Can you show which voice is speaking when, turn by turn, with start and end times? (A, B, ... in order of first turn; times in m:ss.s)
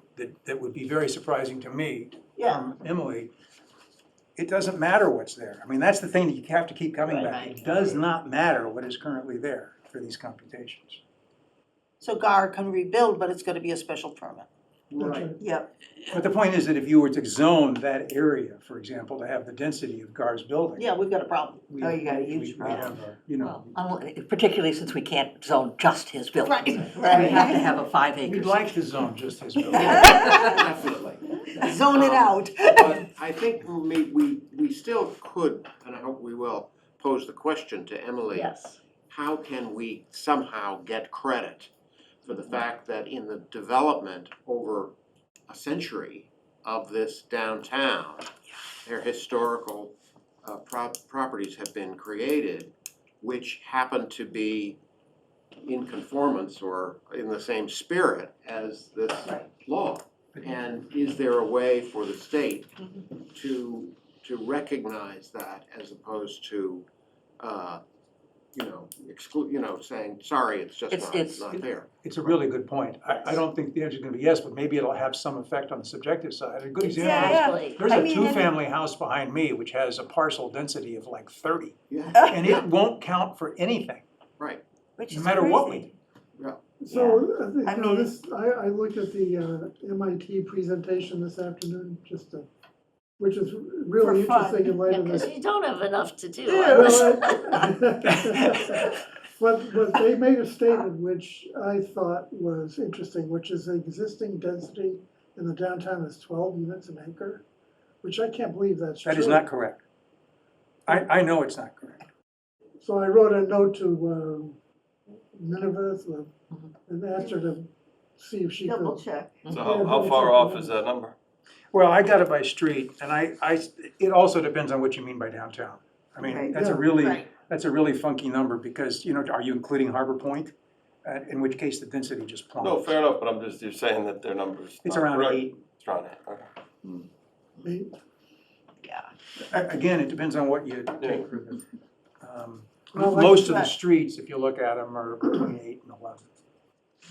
0:00.2-0:03.3 A
0:02.4-0:02.6 B
0:04.4-0:11.0 A
0:07.1-0:08.0 B
0:12.0-0:14.4 B
0:14.9-0:15.2 A
0:15.0-0:15.4 C
0:15.4-0:15.7 D
0:16.1-0:20.8 A
0:20.8-0:21.7 B
0:21.6-0:23.8 A
0:21.8-0:23.0 D
0:23.4-0:28.6 E
0:26.4-0:27.6 B
0:27.2-0:27.6 D
0:28.2-0:30.4 A
0:29.7-0:31.2 F
0:30.1-0:30.6 E
0:31.6-0:33.0 B
0:31.8-0:38.5 F
0:38.3-0:38.8 G
0:39.1-0:41.7 F
0:42.2-0:44.9 F
0:45.5-0:48.3 F
0:48.8-0:54.8 F
0:55.6-1:06.8 F
1:00.4-1:00.6 A
1:07.4-1:07.8 F
1:08.5-1:12.4 F
1:10.9-1:11.7 E
1:12.0-1:24.0 A
1:16.9-1:18.5 D
1:17.0-1:17.8 G
1:21.9-1:22.7 F
1:22.1-1:22.5 D
1:25.0-1:25.9 D
1:25.1-1:25.9 A
1:26.8-1:32.5 C
1:26.9-1:28.1 D
1:33.2-1:35.3 C
1:34.0-1:34.8 D
1:34.9-1:37.6 G
1:36.5-1:37.4 D
1:36.7-1:47.4 C
1:48.0-1:49.4 C
1:49.0-1:49.8 A
1:50.9-1:52.0 A
1:52.8-1:54.6 C
1:55.1-1:56.3 C
1:56.9-2:00.7 C
1:58.6-1:59.4 D
1:59.5-2:01.1 H
2:01.7-2:10.5 A
2:06.2-2:06.8 D
2:07.0-2:07.3 B
2:11.0-2:12.9 A
2:12.6-2:16.9 H
2:14.8-2:15.6 A
2:17.6-2:17.9 C
2:18.8-2:19.1 D
2:19.4-2:21.6 A
2:21.0-2:21.3 H
2:22.2-2:26.2 A
2:22.9-2:23.6 C
2:23.4-2:23.7 D